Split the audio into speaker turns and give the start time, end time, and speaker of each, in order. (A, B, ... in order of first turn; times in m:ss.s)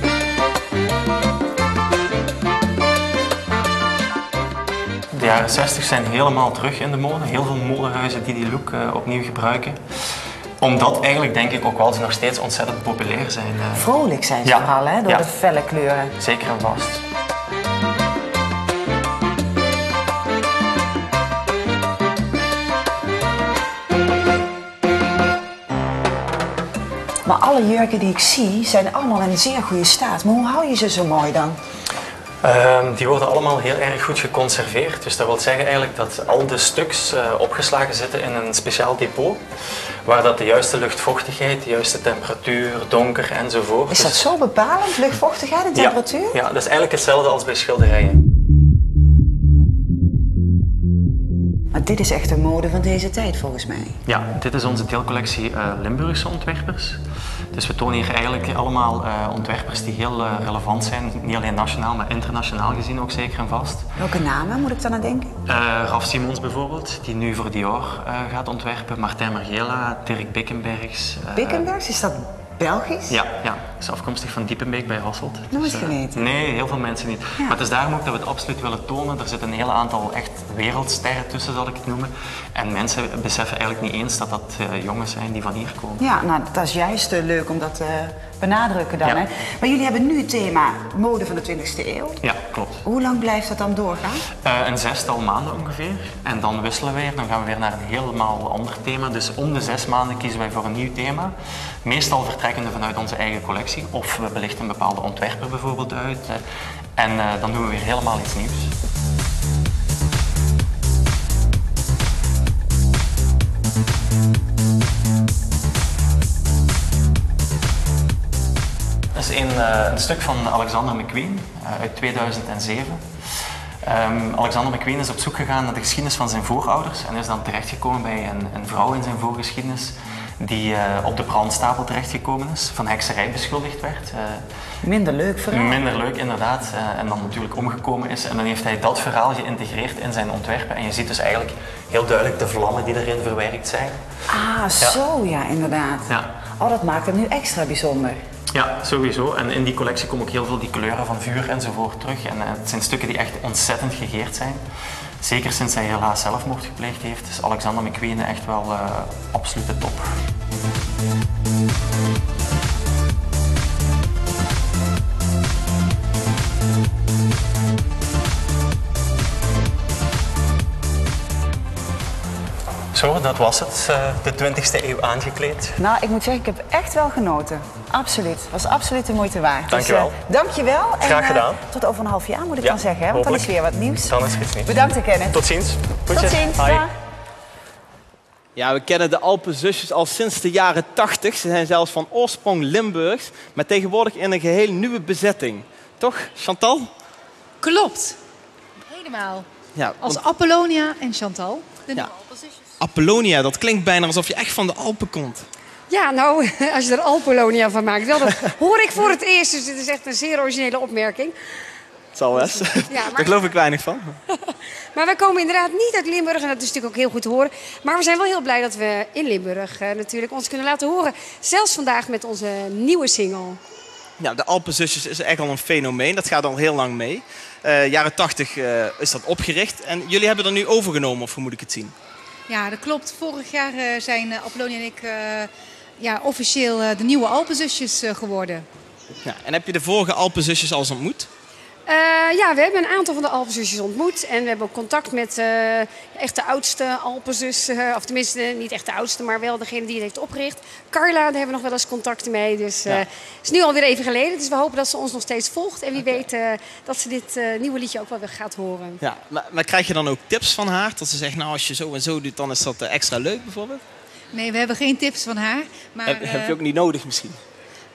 0:05.1-0:09.8 A
0:10.6-0:13.9 A
0:13.8-0:16.1 B
0:14.4-0:15.2 A
0:16.2-0:17.0 A
0:27.2-0:31.6 B
0:32.4-0:39.4 A
0:40.0-0:44.3 A
0:43.9-0:46.4 B
0:45.8-0:48.2 A
0:51.7-0:54.0 B
0:54.1-0:57.0 A
0:57.5-1:03.9 A
1:04.0-1:05.3 B
1:05.5-1:11.7 A
1:11.3-1:13.2 B
1:13.1-1:26.0 A
1:15.5-1:16.3 B
1:26.0-1:32.2 B
1:32.2-1:32.8 A
1:32.8-1:34.2 B
1:34.4-1:46.4 A
1:47.0-1:48.7 A
1:59.2-2:03.1 A
2:03.8-2:14.4 A
2:14.8-2:15.8 B
2:15.5-2:24.0 A
2:24.3-2:28.2 B
2:28.5-2:34.6 A
2:35.2-2:40.1 A
2:52.9-2:55.8 A
2:55.8-3:04.1 B
2:59.7-3:00.2 A
3:01.0-3:01.6 A
3:02.6-3:04.8 A
3:04.7-3:05.4 B
3:05.3-3:06.8 A
3:06.1-3:06.9 B
3:08.6-3:16.9 C
3:17.6-3:18.2 D
3:18.9-3:19.5 D
3:19.8-3:20.2 C
3:20.0-3:22.5 D
3:22.8-3:25.5 C
3:25.9-3:31.3 E
3:32.1-3:34.2 C
3:32.4-3:33.5 E
3:34.4-3:43.6 E
3:44.2-3:51.9 C
3:52.5-3:58.7 D
3:59.2-4:01.3 C
4:01.9-4:19.0 E
4:19.0-4:23.8 C
4:24.3-4:26.6 D
4:26.1-4:27.4 C